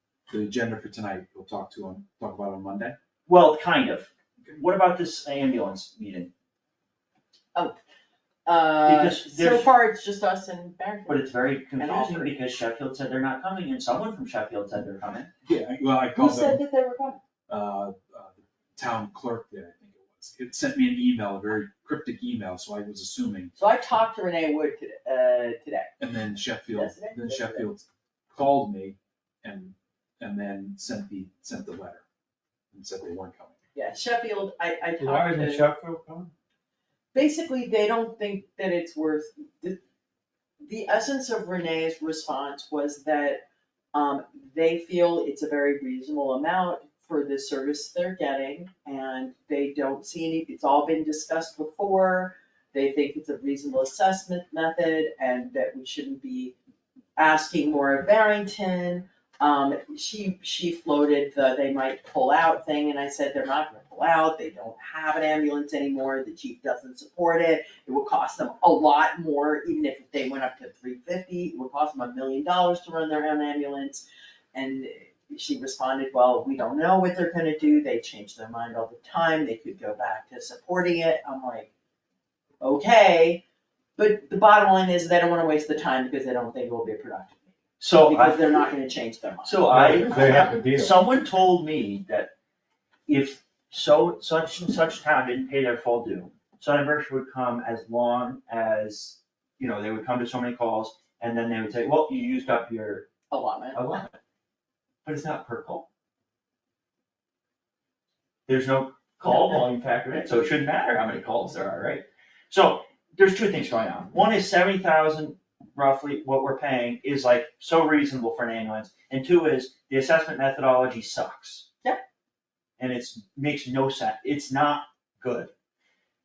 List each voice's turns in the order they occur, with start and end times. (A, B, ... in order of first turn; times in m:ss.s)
0:00.3-0:03.0 A
0:03.2-0:06.3 B
0:08.4-0:12.3 C
0:08.8-0:09.7 B
0:11.1-0:15.3 B
0:15.4-0:16.6 A
0:16.1-0:17.2 C
0:17.5-0:23.5 A
0:23.6-0:25.9 C
0:26.0-0:32.0 A
0:26.7-0:27.7 C
0:32.7-0:33.5 A
0:33.7-0:35.7 C
0:35.0-0:36.3 D
0:37.1-0:39.8 C
0:40.6-0:56.5 C
0:57.2-1:21.7 C
1:22.6-1:23.4 C
1:24.0-1:27.5 C
1:27.8-1:28.7 B
1:28.0-1:30.5 C
1:29.4-1:32.3 B
1:29.7-1:31.0 D
1:33.1-1:43.1 B
1:43.3-1:43.8 C
1:43.7-1:44.1 B
1:45.0-1:45.9 B
1:48.5-2:01.7 B
1:49.2-1:49.7 C
2:02.8-2:05.5 B